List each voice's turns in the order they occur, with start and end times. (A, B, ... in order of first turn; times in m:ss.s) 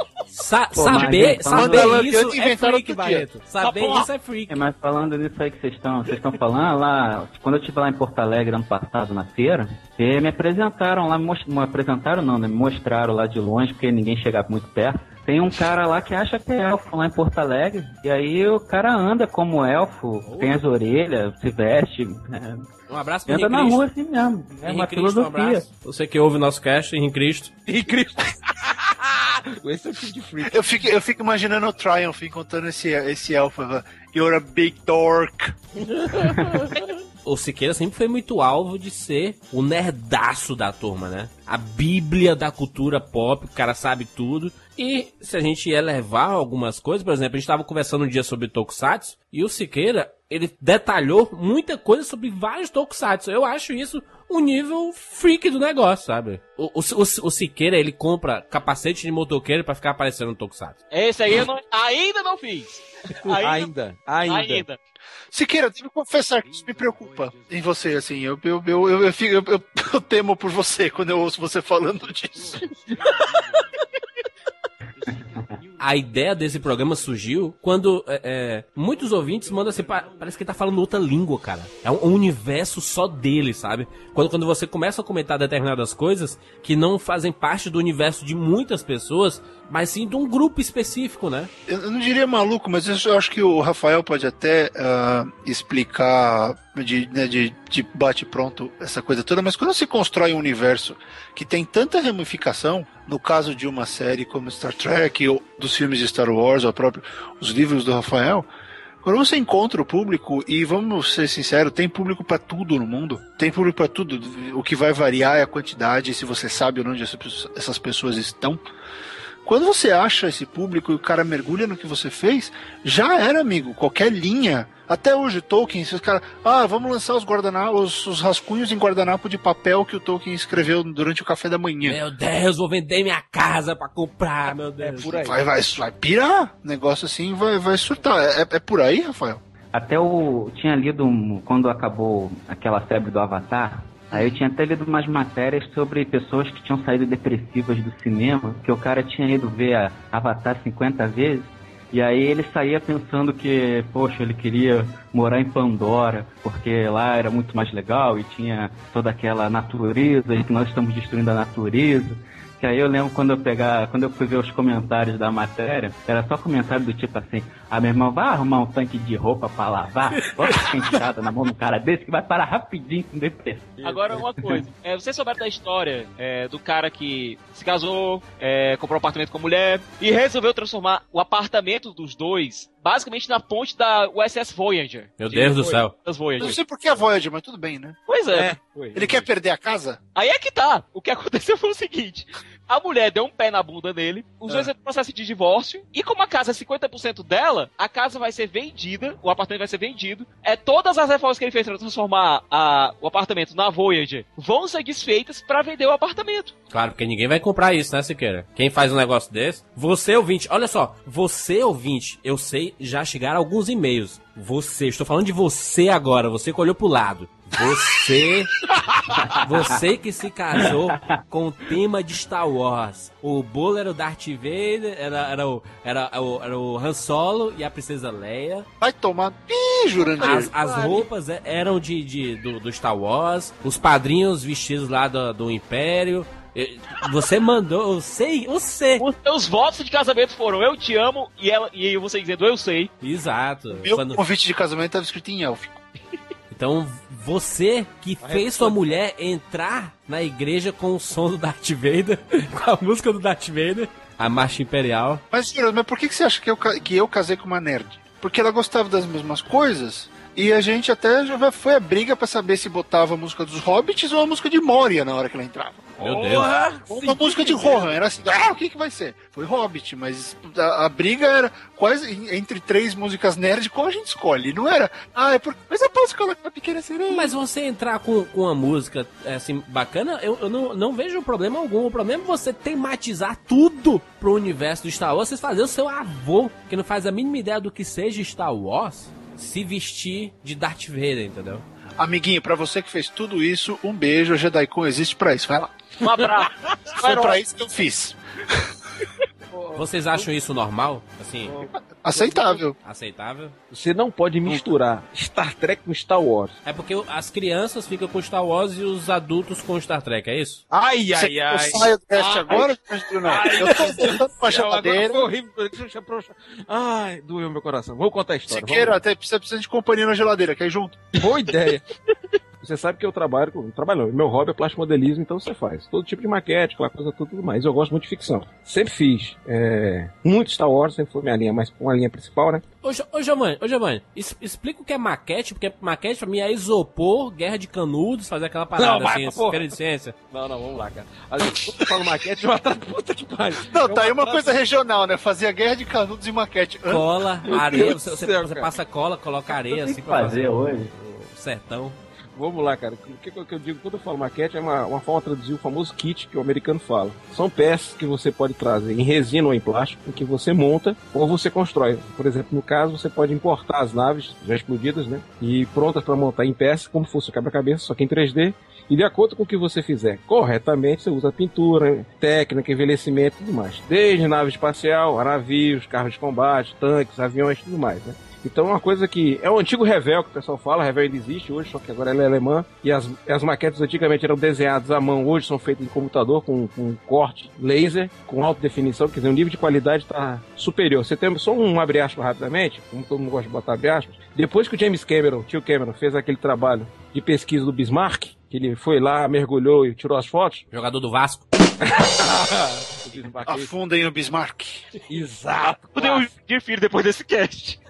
0:00.3-0:04.6 A
0:00.8-0:02.0 B
0:00.9-0:03.3 C
0:03.6-0:04.1 D
0:04.5-0:22.7 B
0:20.2-0:20.6 A
0:22.9-0:23.8 A
0:23.3-0:25.6 B
0:24.6-0:27.5 A
0:27.6-0:30.6 D
0:30.4-0:35.6 C
0:35.8-0:37.0 D
0:37.2-1:00.8 A
1:00.9-1:03.7 E
1:03.2-1:04.6 D
1:04.2-1:04.8 E
1:05.3-1:12.7 C
1:15.8-1:31.5 A
1:31.7-1:48.5 C
1:49.0-1:58.6 C
1:59.4-2:12.0 C
2:11.8-2:15.2 A
2:14.8-2:15.4 D
2:15.0-2:19.4 C
2:19.7-2:53.7 B
2:53.8-3:06.6 E
2:53.8-2:54.6 D
3:05.2-3:05.9 A
3:06.4-3:08.0 C
3:08.1-3:08.5 E
3:08.3-3:09.3 D
3:08.9-3:10.0 C
3:10.1-3:26.5 E
3:26.7-3:38.6 A
3:39.4-3:48.7 A
3:48.8-3:50.5 C
3:50.2-3:50.9 D
3:50.2-3:59.0 A
3:59.0-4:02.9 E
4:03.0-4:04.2 A
4:03.8-4:05.8 C
4:06.5-4:15.2 A
4:08.2-4:09.0 D
4:15.3-4:26.0 C
4:26.0-4:28.0 D
4:26.0-4:26.5 A
4:26.9-4:37.3 C
4:37.1-4:51.6 A
4:52.0-4:55.9 C
4:56.0-4:57.4 E
4:57.0-4:58.7 C
4:59.5-5:00.3 D
4:59.8-5:01.5 A
5:01.4-5:02.6 D
5:01.8-5:02.7 C
5:02.8-5:03.5 A
5:03.7-5:06.6 D
5:06.6-5:10.6 A
5:10.7-5:19.0 D
5:11.1-5:15.2 C
5:18.5-5:21.2 C
5:21.2-5:21.8 D
5:22.6-5:32.6 D
5:32.8-5:40.2 A
5:38.8-5:39.7 D
5:40.3-5:44.6 D
5:43.7-5:47.0 C
5:46.9-5:52.0 A
5:47.4-5:48.7 D
5:49.7-5:50.9 B
5:52.3-6:40.6 D
6:40.7-6:41.5 A
6:41.8-6:43.7 D
6:43.4-6:44.9 C
6:45.1-6:46.3 D
6:46.0-6:47.8 E